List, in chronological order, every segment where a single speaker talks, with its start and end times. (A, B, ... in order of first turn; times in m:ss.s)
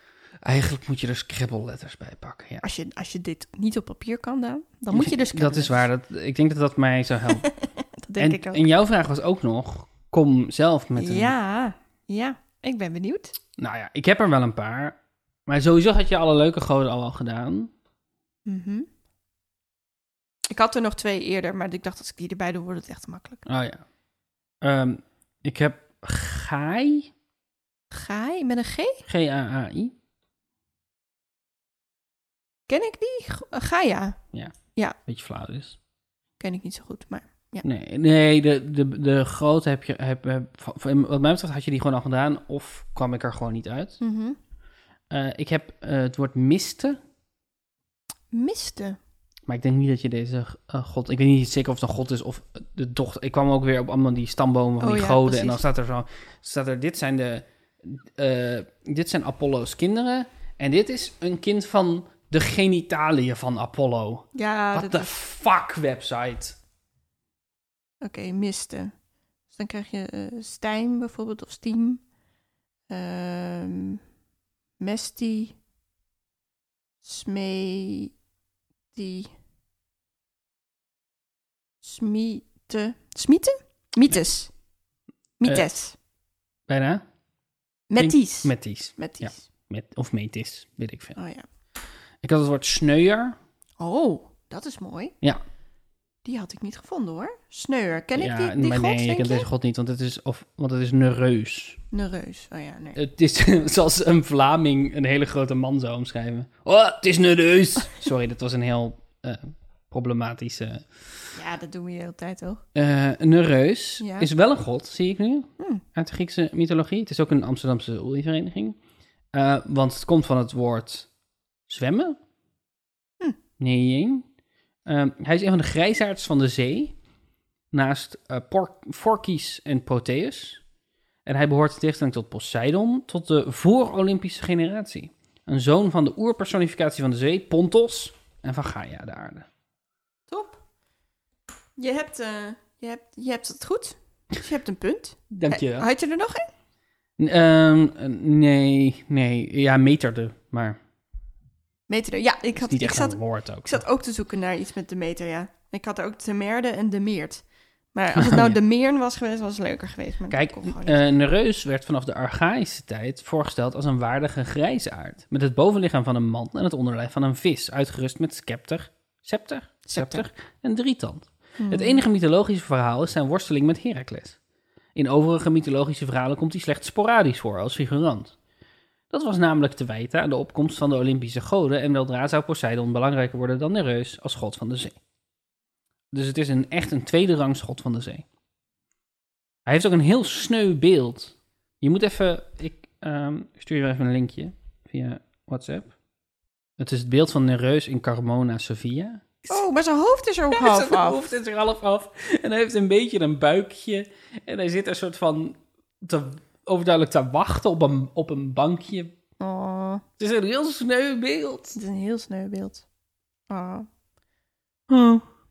0:00.4-0:02.6 A
0:02.6-0:05.8 B
0:04.9-0:07.5 A
0:07.4-0:08.6 B
0:08.2-0:11.3 A
0:11.0-0:13.3 B
0:13.6-0:17.7 A
0:18.5-0:18.9 B
0:20.5-0:23.4 B
0:23.4-0:23.8 A
0:24.6-0:27.1 A
0:27.9-0:29.0 B
0:29.1-0:29.9 A
0:32.7-0:34.2 B
0:35.1-0:35.8 A
0:36.4-0:37.6 B
0:37.6-0:44.0 A
0:44.0-0:44.4 B
0:45.1-0:47.0 A
0:48.3-0:49.0 B
0:49.4-1:06.6 A
0:54.8-0:55.6 B
1:04.3-1:05.2 B
1:08.0-1:08.9 B
1:09.5-1:12.0 B
1:12.9-1:14.0 B
1:14.8-1:15.6 B
1:17.0-1:18.1 B
1:18.9-1:19.3 B
1:21.8-1:24.5 B
1:25.4-1:26.0 B
1:26.7-1:27.0 A
1:27.9-1:29.4 B
1:28.0-1:31.2 A
1:31.2-1:31.4 B
1:32.2-1:33.4 A
1:33.8-1:35.1 B
1:36.2-1:39.4 B
1:38.1-1:41.8 A
1:41.9-1:43.0 B
1:43.0-1:51.1 A
1:51.3-1:52.6 B
1:52.7-1:58.8 A
1:54.0-1:54.3 B
1:55.6-1:55.8 B
1:59.3-2:01.1 A
2:01.7-2:02.2 A
2:03.6-2:04.2 A
2:04.8-2:06.9 A
2:07.7-2:10.6 A
2:11.2-2:19.5 A
2:20.3-2:20.6 B
2:21.8-2:26.5 B
2:25.3-2:25.9 A
2:27.2-2:30.8 A
2:31.9-2:41.0 B
2:32.6-2:33.8 A
2:38.1-2:38.6 A
2:40.3-2:54.4 A
2:49.9-2:50.2 B
2:51.6-2:52.0 B
2:54.9-2:58.4 A
2:59.1-3:05.0 A
3:06.1-3:08.2 A
3:09.6-3:15.9 A
3:16.8-3:19.6 A
3:19.5-3:21.3 B
3:20.5-3:29.1 A
3:29.4-3:30.0 B
3:30.2-3:31.8 A
3:31.7-3:32.8 B
3:33.5-3:33.8 B
3:34.9-3:35.2 A